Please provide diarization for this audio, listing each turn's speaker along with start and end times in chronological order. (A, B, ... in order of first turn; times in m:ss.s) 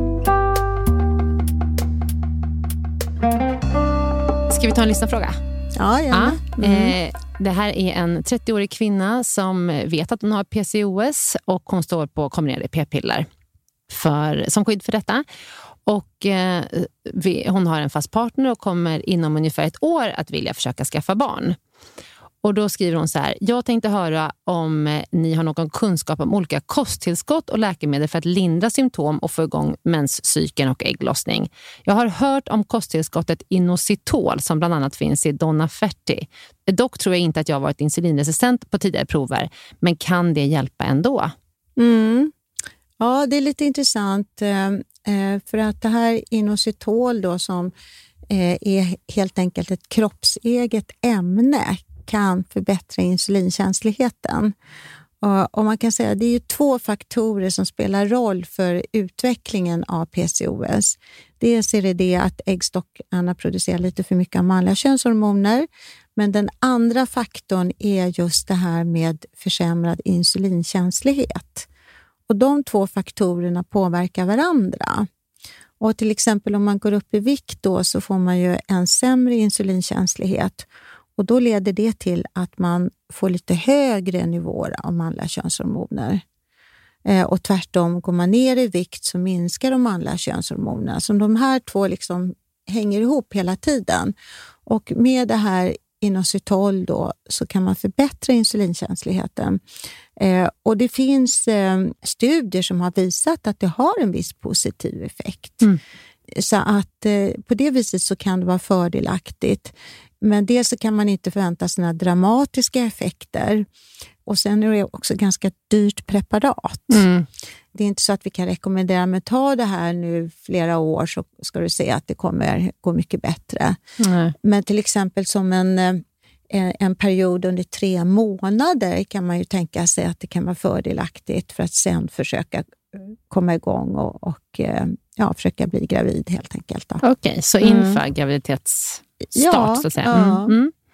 0:04.5-0:05.4 A
0:05.8-0:07.0 B
0:06.1-0:13.3 A
0:13.9-0:15.2 A
0:15.8-0:21.6 A
0:22.4-0:41.3 A
0:41.8-0:42.3 B
0:43.0-0:47.7 B
0:48.3-0:54.5 B
0:55.2-1:11.7 B
1:12.3-1:15.1 B
1:15.8-1:26.2 B
1:27.0-1:34.1 B
1:34.6-1:39.6 B
1:40.2-1:45.7 B
1:46.3-1:53.6 B
1:54.2-1:57.0 B
1:56.9-1:57.3 A
1:57.7-2:03.8 B
2:04.0-2:04.3 A
2:04.4-2:17.0 B
2:17.0-2:20.7 A
2:17.6-2:18.0 B
2:19.3-2:20.5 B